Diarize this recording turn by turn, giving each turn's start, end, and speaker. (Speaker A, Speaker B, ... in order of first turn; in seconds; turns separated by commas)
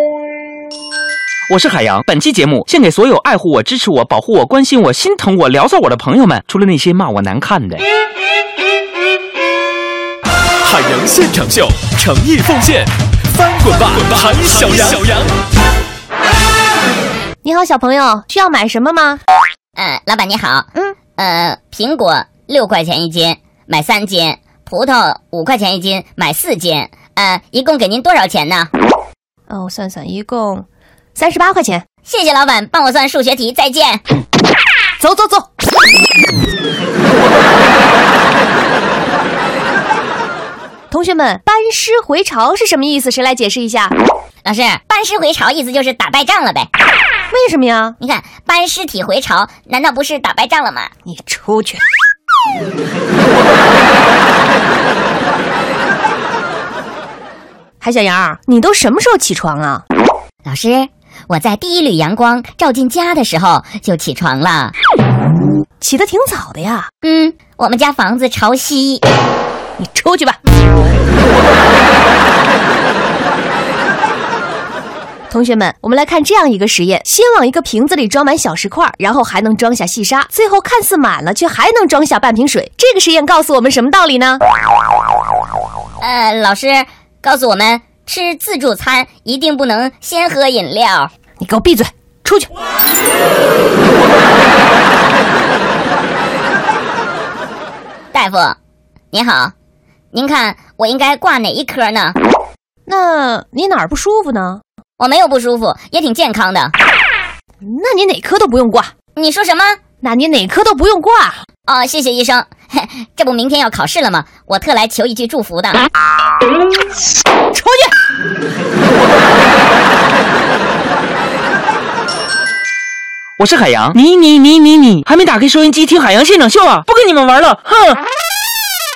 Speaker A: 1.5-7.8, Speaker B: 10.6-15.3, Speaker C: 17.4-19.2, Speaker D: 19.8-28.7, Speaker C: 29.5-31.8, Speaker D: 32.0-34.0, Speaker C: 35.0-35.5, Speaker C: 40.9-43.9, Speaker D: 44.4-46.7, Speaker C: 47.3-48.0, Speaker D: 48.0-50.9, Speaker C: 51.0-51.8, Speaker C: 57.8-59.8, Speaker D: 60.4-64.7, Speaker C: 65.8-66.9, Speaker D: 67.0-69.0, Speaker C: 69.8-70.4, Speaker C: 75.3-84.4, Speaker D: 86.0-91.1, Speaker C: 91.4-92.5, Speaker D: 98.1-98.5, Speaker D: 99.1-99.5, Speaker D: 100.1-102.2, Speaker C: 102.8-104.6, Speaker D: 105.0-106.7, Speaker C: 107.6-108.9, Speaker D: 109.2-109.8, Speaker C: 110.0-111.4, Speaker D: 111.7-115.8, Speaker C: 117.5-117.9, Speaker A: 123.4-128.0